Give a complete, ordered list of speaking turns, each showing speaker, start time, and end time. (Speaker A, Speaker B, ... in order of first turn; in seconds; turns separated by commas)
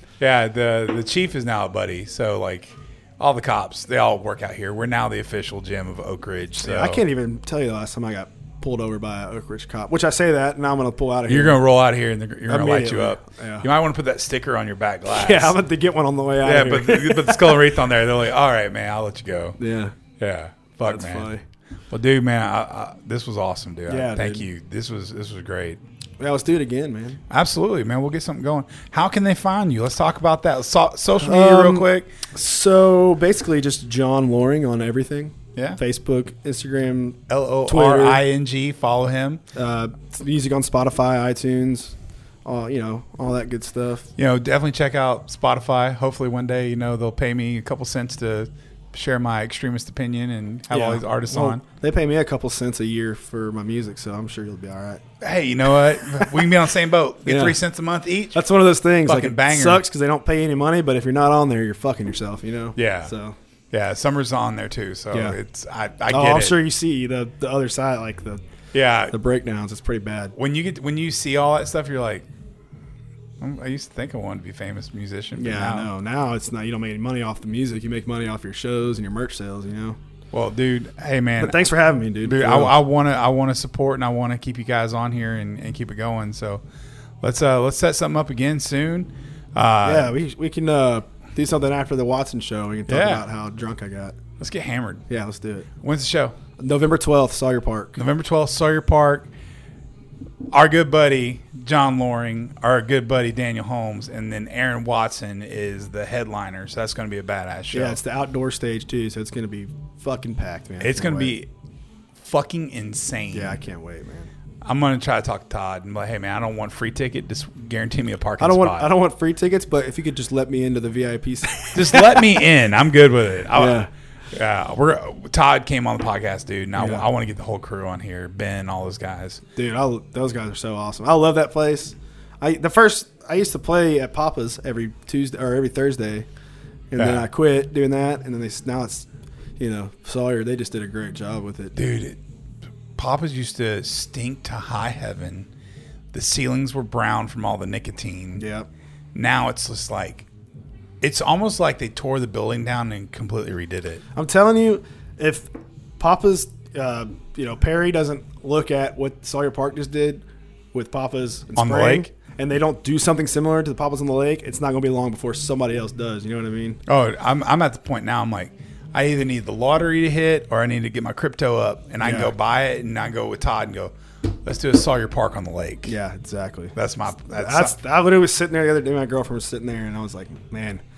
Speaker A: 0.2-7.0, Speaker B: 6.6-11.6, Speaker A: 11.3-15.6, Speaker B: 12.5-13.7, Speaker B: 15.1-17.6, Speaker A: 16.4-19.6, Speaker B: 19.6-19.9, Speaker A: 20.1-21.3, Speaker B: 20.8-21.4, Speaker A: 21.9-25.8, Speaker B: 23.9-24.5, Speaker B: 26.2-27.2, Speaker A: 27.3-32.1, Speaker B: 31.2-38.2, Speaker A: 37.3-39.4, Speaker B: 39.5-44.1, Speaker A: 44.2-51.6, Speaker B: 50.7-55.0, Speaker A: 55.2-58.4, Speaker B: 57.2-57.6, Speaker B: 58.3-63.4, Speaker A: 59.0-59.8, Speaker A: 62.8-63.1, Speaker A: 63.7-66.6, Speaker B: 65.1-65.4, Speaker B: 66.1-68.4, Speaker A: 68.7-69.2, Speaker B: 69.1-70.3, Speaker A: 70.3-72.3, Speaker A: 73.4-75.9, Speaker B: 75.4-80.0, Speaker A: 80.3-81.7, Speaker B: 81.4-82.8, Speaker A: 82.2-86.6, Speaker A: 87.2-90.1, Speaker B: 89.8-94.2, Speaker A: 92.9-93.2, Speaker A: 94.4-95.0, Speaker B: 95.1-95.7, Speaker A: 95.8-96.3, Speaker B: 96.6-98.0, Speaker A: 98.0-99.3, Speaker A: 100.5-108.0, Speaker B: 107.7-111.4, Speaker A: 110.8-111.5, Speaker A: 112.2-113.6, Speaker B: 113.3-114.3, Speaker A: 114.6-118.9, Speaker B: 118.4-122.2, Speaker A: 121.7-129.4, Speaker B: 123.5-123.9, Speaker B: 126.8-127.0, Speaker B: 129.6-136.3, Speaker B: 136.9-139.1, Speaker A: 136.9-137.3, Speaker B: 139.6-141.8, Speaker A: 141.8-142.2, Speaker A: 142.9-145.5, Speaker A: 146.1-148.4, Speaker B: 148.3-148.7, Speaker A: 149.1-150.3, Speaker A: 151.0-154.0, Speaker B: 154.1-166.8, Speaker A: 161.6-162.1, Speaker A: 166.9-175.9, Speaker B: 172.0-172.3, Speaker B: 175.8-176.7, Speaker A: 176.7-177.7, Speaker B: 177.3-180.8